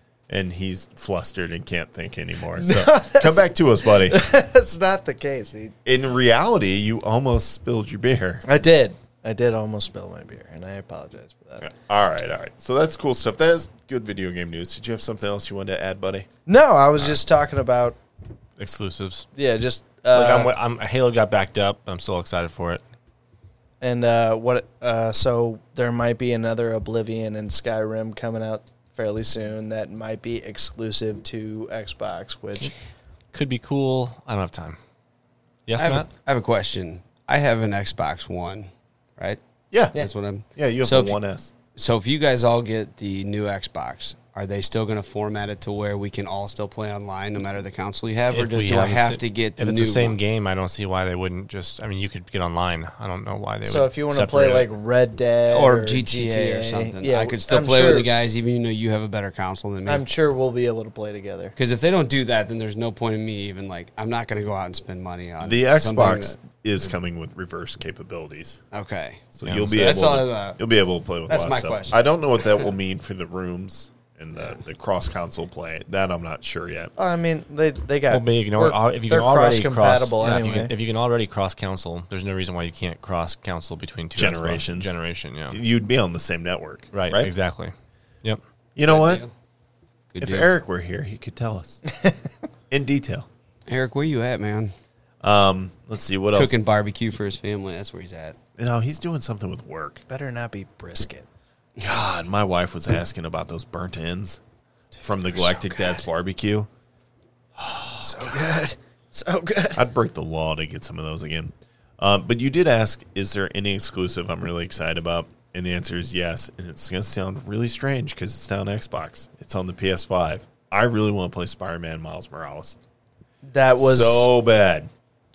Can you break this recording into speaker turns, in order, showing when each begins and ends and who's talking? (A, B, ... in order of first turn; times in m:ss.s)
0:00.3-0:04.2 A
0:02.6-0:05.7 B
0:05.8-0:08.4 A
0:08.4-0:11.7 B
0:11.6-0:16.3 A
0:16.5-0:18.0 B
0:18.6-0:19.3 C
0:19.4-0:20.5 B
0:20.1-0:22.8 C
0:23.8-0:32.7 B
0:33.3-0:34.8 C
0:35.7-0:36.1 C
0:35.8-0:39.4 D
0:39.7-0:41.5 A
0:39.9-0:41.2 D
0:41.7-0:50.2 D
0:48.3-0:54.7 C
0:53.6-0:58.1 B
0:55.5-1:00.0 D
0:59.8-1:01.5 B
1:01.6-1:06.4 D
1:05.4-1:08.6 A
1:08.7-1:10.6 D
1:09.3-1:16.9 A
1:09.4-1:09.7 C
1:11.3-1:12.7 D
1:17.0-1:20.7 B
1:18.1-1:25.6 C
1:24.1-1:24.9 A
1:25.5-1:27.3 A
1:26.9-1:27.7 C
1:28.8-1:29.2 A
1:28.9-1:29.3 D
1:30.1-1:30.5 D
1:30.2-1:31.8 A
1:32.7-1:33.3 A
1:33.7-1:34.7 D
1:35.2-1:36.6 A
1:36.3-1:38.4 D
1:38.6-1:40.0 A
1:40.1-1:41.2 B
1:41.8-1:44.4 A
1:45.0-1:46.0 B
1:45.0-1:46.7 A
1:47.6-1:48.6 A
1:48.0-1:49.8 B
1:49.7-2:02.8 A
2:03.4-2:04.3 B
2:03.7-2:04.9 A